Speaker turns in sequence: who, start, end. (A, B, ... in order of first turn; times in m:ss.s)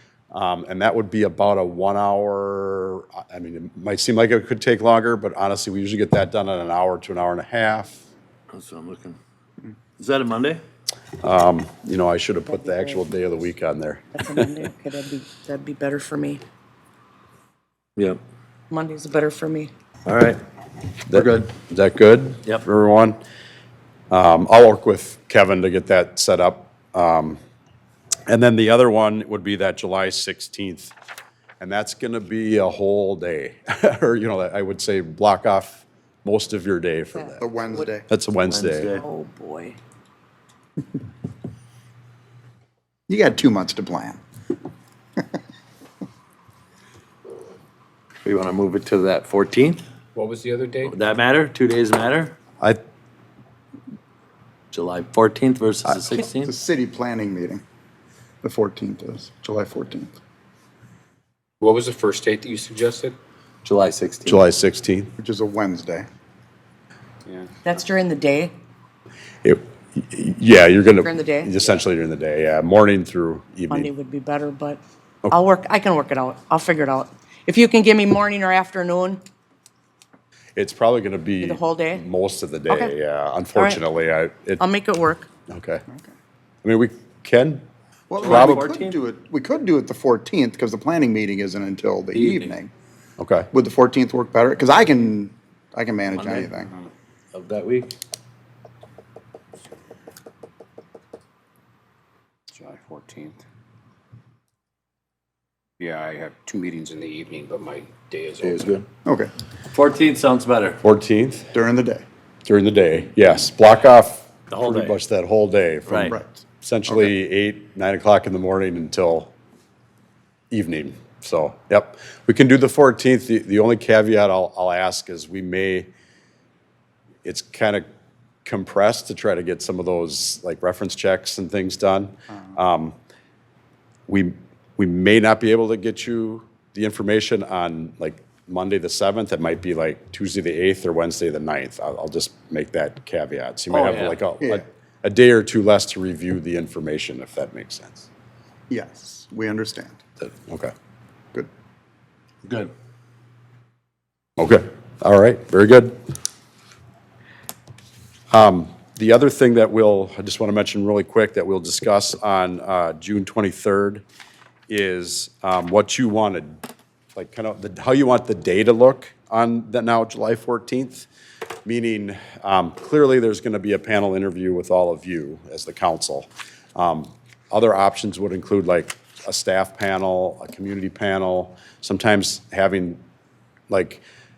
0:00.3-0:08.0 A
0:08.5-0:09.2 B
0:10.0-0:10.6 B
0:11.2-0:14.5 A
0:12.5-0:13.1 C
0:14.1-0:16.4 C
0:18.7-0:19.7 C
0:20.0-0:20.4 B
0:21.1-0:23.2 A
0:21.1-0:21.5 B
0:24.1-0:27.4 A
0:28.3-0:30.9 A
0:31.6-0:37.4 A
0:37.1-0:37.8 C
0:37.4-0:38.0 D
0:38.1-0:38.9 A
0:38.5-0:39.0 B
0:38.9-0:39.8 C
0:43.1-0:44.2 D
0:48.2-0:49.8 B
0:50.1-0:51.0 E
0:50.8-0:52.4 B
0:54.7-0:56.5 B
0:56.2-0:57.6 D
0:58.4-1:00.2 D
1:01.6-1:03.2 E
1:03.6-1:04.4 B
1:04.2-1:05.1 A
1:05.2-1:06.0 D
1:07.2-1:07.6 E
1:07.6-1:08.5 C
1:09.4-1:13.9 A
1:11.0-1:11.6 C
1:13.7-1:19.2 C
1:20.6-1:24.6 A
1:21.4-1:22.0 C
1:22.7-1:22.9 C
1:23.5-1:23.8 C
1:24.6-1:25.3 C
1:25.5-1:25.8 A
1:26.6-1:27.6 A
1:28.1-1:32.7 D
1:28.2-1:29.0 B
1:28.2-1:28.6 A
1:32.1-1:32.6 B
1:33.2-1:33.5 A
1:33.5-1:36.7 D
1:36.1-1:36.5 B
1:37.3-1:37.9 B
1:42.5-1:43.4 E
1:45.8-1:48.8 E
1:48.4-1:48.8 B
1:49.0-1:49.3 D
1:49.7-1:50.8 B
1:50.8-1:51.5 A
1:51.5-1:52.0 D
1:52.5-1:59.3 A
1:54.5-1:55.0 B
1:55.9-1:56.1 B
1:56.0-1:57.1 D
2:00.5-2:05.9 A
2:07.2-2:07.8 A
2:08.4-2:13.0 A
2:14.1-2:28.1 A
2:23.7-2:24.2 B
2:28.7-2:30.0 D
2:30.2-2:30.7 A
2:32.4-2:32.7 B
2:34.4-2:36.0 A
2:38.3-2:44.0 A
2:44.7-2:46.6 A
2:47.1-2:51.1 A
2:51.6-3:03.0 A
3:03.7-3:04.0 A